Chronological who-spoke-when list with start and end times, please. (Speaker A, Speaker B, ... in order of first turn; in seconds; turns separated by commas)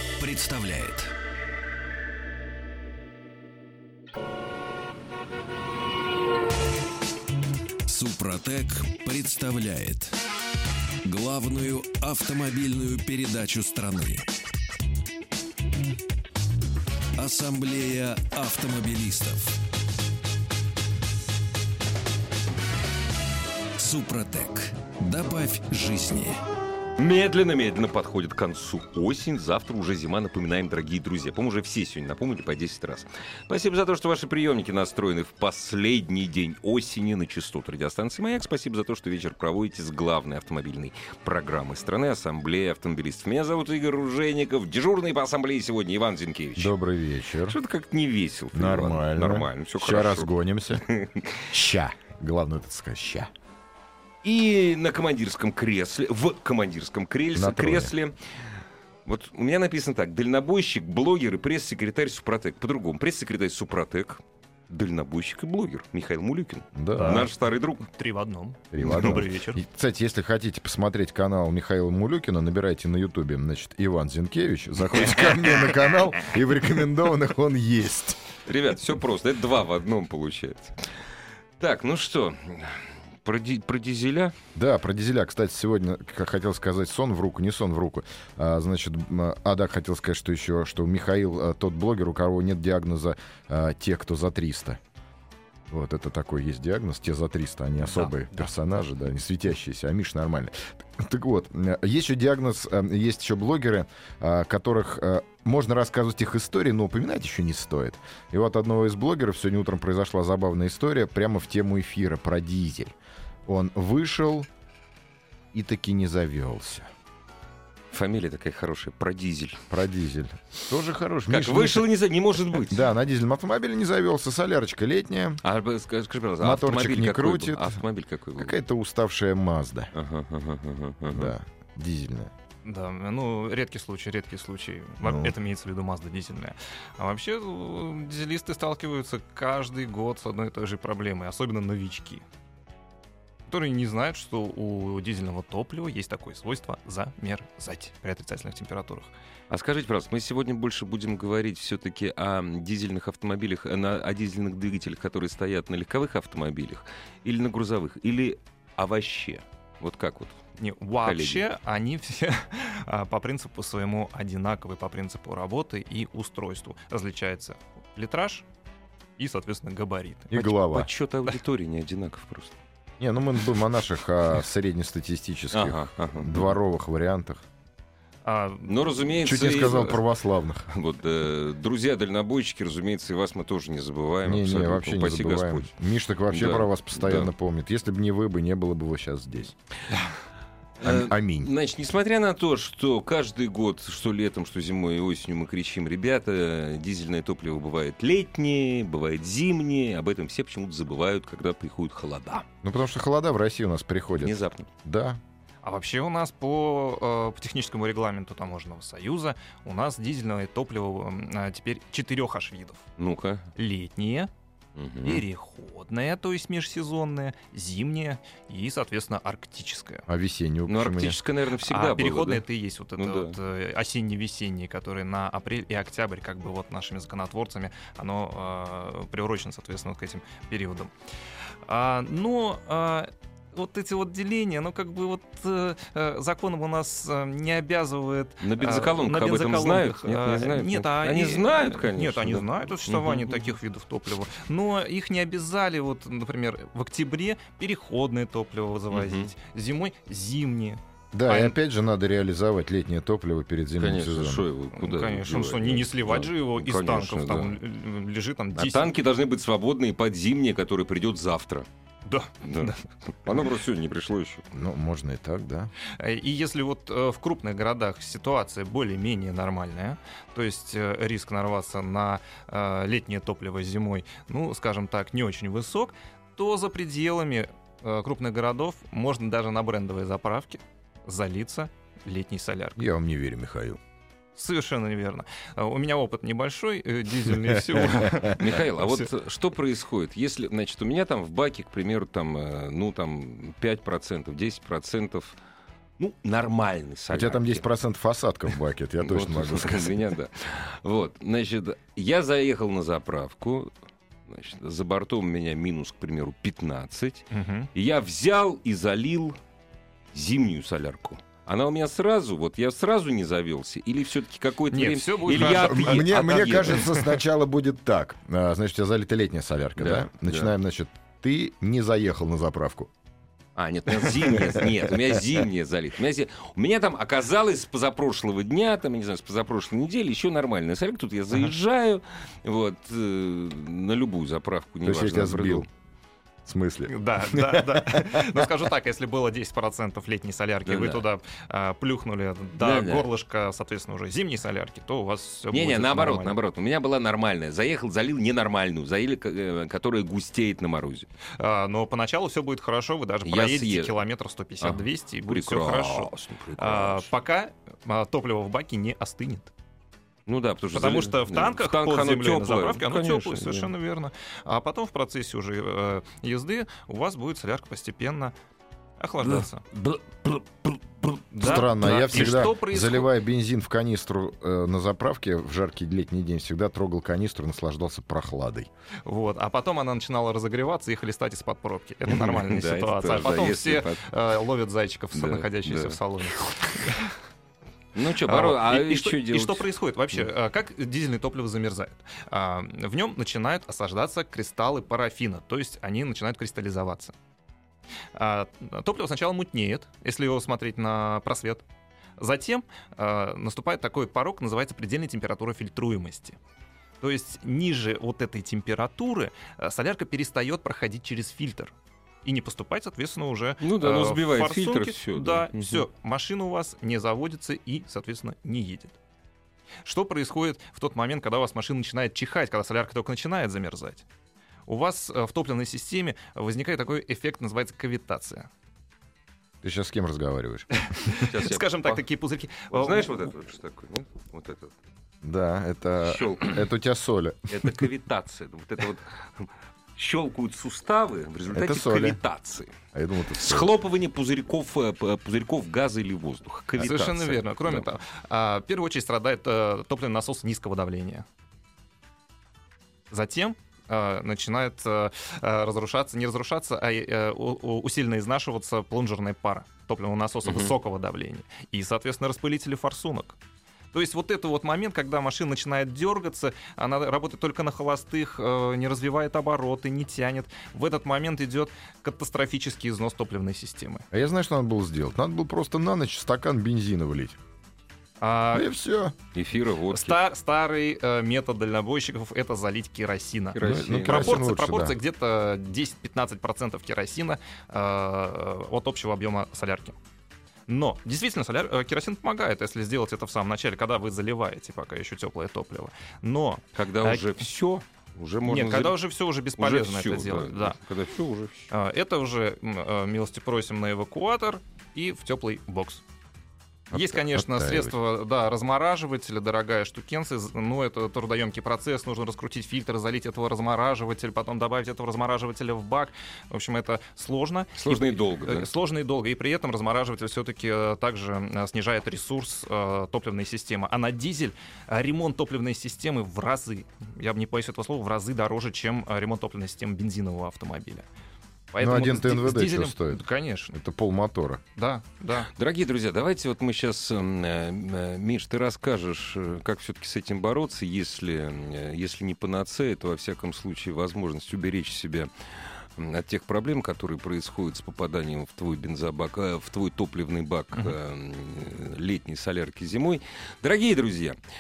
Speaker A: 0.2-1.1, Speaker A: 7.9-10.2, Speaker A: 11.0-14.3, Speaker A: 17.2-19.6, Speaker A: 23.8-26.4, Speaker B: 27.0-46.7, Speaker C: 46.6-47.6, Speaker B: 47.5-51.5, Speaker C: 48.5-50.9, Speaker C: 51.5-53.3, Speaker B: 54.2-67.8, Speaker C: 57.4-57.9, Speaker C: 66.8-67.3, Speaker D: 67.0-69.6, Speaker C: 68.7-78.2, Speaker B: 68.8-69.2, Speaker B: 74.9-75.8, Speaker B: 78.5-80.8, Speaker B: 81.6-84.3, Speaker C: 84.5-94.8, Speaker C: 95.7-113.0, Speaker C: 113.5-114.5, Speaker C: 115.5-116.9, Speaker B: 117.9-119.7, Speaker C: 119.7-121.8, Speaker B: 121.3-122.9, Speaker C: 122.7-125.4, Speaker B: 125.4-128.6, Speaker C: 126.4-127.8, Speaker C: 128.4-129.9, Speaker B: 129.9-131.3, Speaker C: 131.1-132.3, Speaker D: 132.7-142.2, Speaker C: 135.0-135.3, Speaker D: 143.5-149.1, Speaker B: 149.5-160.4, Speaker D: 160.6-168.4, Speaker B: 161.0-161.5, Speaker D: 169.2-170.6, Speaker C: 170.3-170.9, Speaker B: 170.6-172.6, Speaker C: 173.0-177.4, Speaker B: 175.5-176.6, Speaker D: 178.2-178.8, Speaker B: 178.7-180.1, Speaker C: 179.2-180.7, Speaker B: 180.7-185.7, Speaker C: 184.2-189.6, Speaker B: 186.3-187.3, Speaker B: 190.8-202.5, Speaker C: 190.8-191.5, Speaker C: 202.6-205.2, Speaker B: 204.2-204.7, Speaker D: 205.6-212.8, Speaker B: 213.0-213.5, Speaker D: 213.6-214.3, Speaker B: 214.8-215.2, Speaker D: 215.0-220.1, Speaker C: 220.1-221.2, Speaker B: 220.7-222.4, Speaker D: 221.6-230.9, Speaker B: 223.0-223.4, Speaker D: 231.7-251.6, Speaker B: 238.4-243.5, Speaker B: 248.9-249.3, Speaker C: 251.1-254.5, Speaker B: 253.8-257.6, Speaker D: 254.7-258.9, Speaker B: 258.6-261.7, Speaker D: 262.1-262.8, Speaker B: 262.4-264.4, Speaker C: 264.5-265.7, Speaker D: 266.0-282.8, Speaker C: 282.8-283.8, Speaker D: 284.4-289.1, Speaker B: 288.4-295.4, Speaker B: 296.0-297.6, Speaker C: 297.1-300.0, Speaker B: 299.0-303.7, Speaker B: 304.3-309.4, Speaker D: 307.3-307.7, Speaker B: 310.1-317.1, Speaker D: 314.7-316.1, Speaker C: 315.3-322.9, Speaker B: 319.8-320.5, Speaker B: 323.6-335.7, Speaker C: 334.8-335.7, Speaker C: 336.5-338.5, Speaker D: 336.9-346.4, Speaker B: 340.7-341.0, Speaker B: 342.6-343.1, Speaker B: 345.5-351.1, Speaker D: 351.4-359.5, Speaker B: 353.2-353.9, Speaker B: 354.6-357.1, Speaker B: 360.3-363.7, Speaker D: 360.7-368.4, Speaker D: 369.0-369.6, Speaker B: 369.2-372.5, Speaker D: 371.3-373.1, Speaker C: 371.4-378.7, Speaker D: 379.1-387.1, Speaker B: 382.1-384.1, Speaker B: 385.1-386.7, Speaker B: 387.9-390.3, Speaker D: 388.3-397.1, Speaker D: 398.1-401.6, Speaker D: 402.2-406.4, Speaker D: 407.0-411.7, Speaker D: 412.2-419.0, Speaker B: 413.6-415.9, Speaker D: 419.9-424.1, Speaker D: 424.7-428.5, Speaker C: 429.6-430.7, Speaker D: 430.8-433.1, Speaker B: 431.2-432.0, Speaker B: 432.7-434.7, Speaker C: 435.2-437.7, Speaker B: 436.1-436.6, Speaker B: 437.5-442.8, Speaker C: 441.5-442.2, Speaker C: 442.9-443.7, Speaker B: 443.4-447.9, Speaker D: 446.8-451.2, Speaker D: 453.1-463.4, Speaker B: 460.5-460.7, Speaker D: 463.9-474.0, Speaker C: 474.1-477.4, Speaker D: 478.2-478.7, Speaker C: 478.5-479.1, Speaker B: 479.3-480.2, Speaker D: 479.9-490.0, Speaker B: 483.6-484.5, Speaker C: 483.6-485.0, Speaker D: 490.7-497.3, Speaker B: 496.8-499.0, Speaker D: 498.4-500.8, Speaker B: 499.6-501.7, Speaker D: 501.7-506.0, Speaker C: 506.9-507.9, Speaker D: 506.9-531.0, Speaker B: 517.8-518.7, Speaker D: 531.7-533.8, Speaker C: 531.8-534.6, Speaker D: 534.8-535.5, Speaker B: 535.5-545.3, Speaker B: 546.0-554.4